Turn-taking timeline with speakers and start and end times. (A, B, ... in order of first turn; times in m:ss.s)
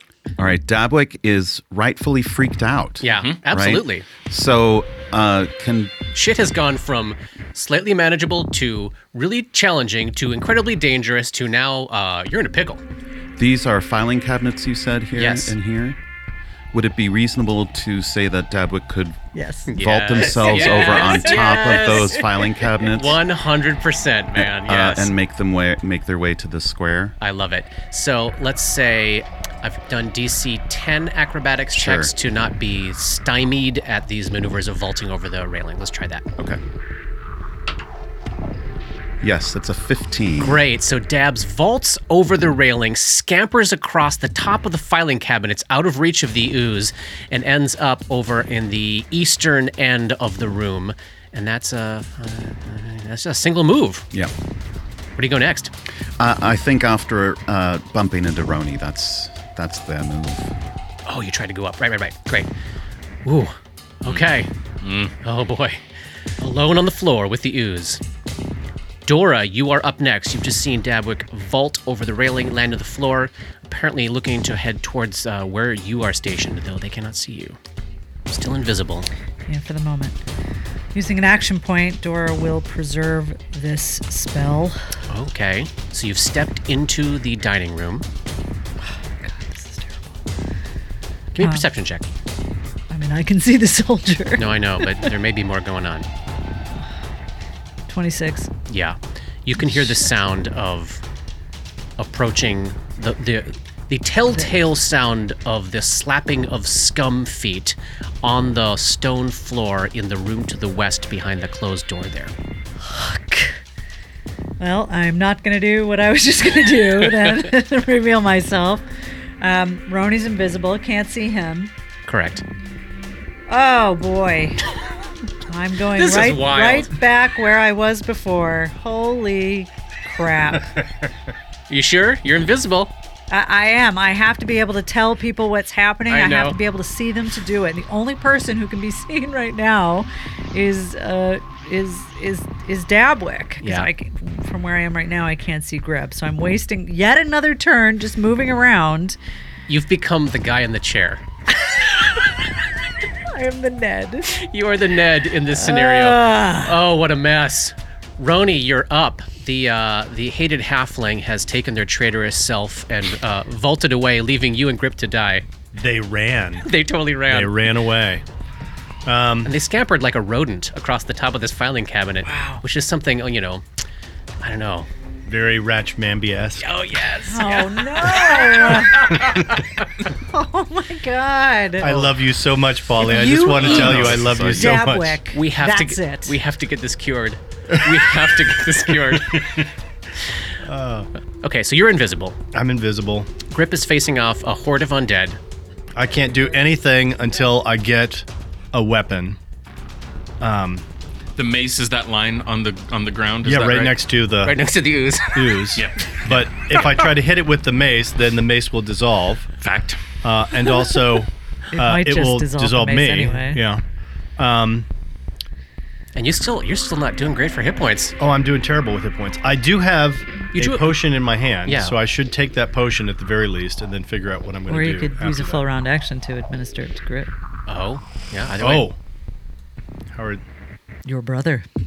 0:00.4-0:06.0 A
0:03.0-0:04.1 B
0:03.1-0:03.4 C
0:06.1-0:12.8 B
0:13.4-0:16.0 A
0:15.2-0:15.5 B
0:16.7-0:19.2 A
0:19.3-0:19.8 D
0:19.7-0:25.1 B
0:19.7-0:23.2 A
0:20.5-0:21.0 C
0:24.3-0:27.2 A
0:27.2-0:36.2 B
0:31.7-0:32.1 A
0:39.2-0:40.6 A
0:40.4-0:54.0 B
0:55.2-0:55.7 B
0:56.2-1:00.5 A
1:01.0-1:02.5 B
1:03.2-1:04.5 B
1:04.8-1:05.1 C
1:05.2-1:05.8 B
1:06.4-1:08.0 B
1:09.0-1:17.6 B
1:18.3-1:19.1 B
1:19.5-1:20.2 D
1:20.9-1:25.0 D
1:25.1-1:28.0 B
1:28.8-1:30.2 D
1:31.3-1:32.1 B
1:31.4-1:31.7 D
1:32.9-1:35.1 D
1:34.4-1:36.1 B
1:37.9-1:38.5 D
1:38.7-1:41.0 B
1:42.0-1:52.3 B
1:52.8-1:53.6 D
1:54.6-1:58.8 D
1:59.4-2:01.7 D
2:02.0-2:02.4 B
2:03.5-2:04.6 D
2:05.5-2:10.7 D
2:06.0-2:06.9 B
2:11.7-2:12.9 B
2:13.3-2:29.2 D
2:16.1-2:16.6 B
2:23.6-2:23.9 B
2:29.7-2:31.2 B
2:33.3-2:34.4 D
2:34.3-2:45.4 B
2:35.5-2:36.8 D
2:45.7-2:46.7 E
2:46.6-2:47.7 B
2:47.3-2:48.2 E
2:49.0-2:49.5 E
2:49.4-2:53.6 B
2:52.2-2:52.6 C
2:54.4-2:54.9 B
2:55.2-2:56.6 E
2:56.6-2:59.6 B
2:57.3-2:59.2 D
2:58.9-2:59.6 E
3:00.2-3:02.0 D
3:01.8-3:05.2 E
3:03.0-3:06.4 D
3:03.5-3:04.8 C
3:05.3-3:09.6 B
3:07.7-3:08.1 E
3:09.3-3:09.6 E
3:10.6-3:11.1 E
3:11.4-3:12.4 B
3:12.5-3:13.3 E
3:13.5-3:15.4 B
3:15.9-3:19.4 E
3:20.4-3:20.8 E
3:21.4-3:23.9 C
3:23.4-3:24.5 E
3:24.4-3:25.7 B
3:25.3-3:29.5 E
3:25.8-3:26.3 C
3:29.6-3:30.0 C
3:30.2-3:33.8 E
3:31.7-3:33.6 D
3:34.4-3:34.9 E
3:36.1-3:38.1 B
3:38.2-3:45.6 E
3:40.5-3:41.0 B
3:41.6-3:42.0 B
3:44.7-3:47.3 D
3:47.7-3:48.9 B
3:48.6-3:49.0 E
3:50.1-3:50.4 E
3:51.0-3:51.6 D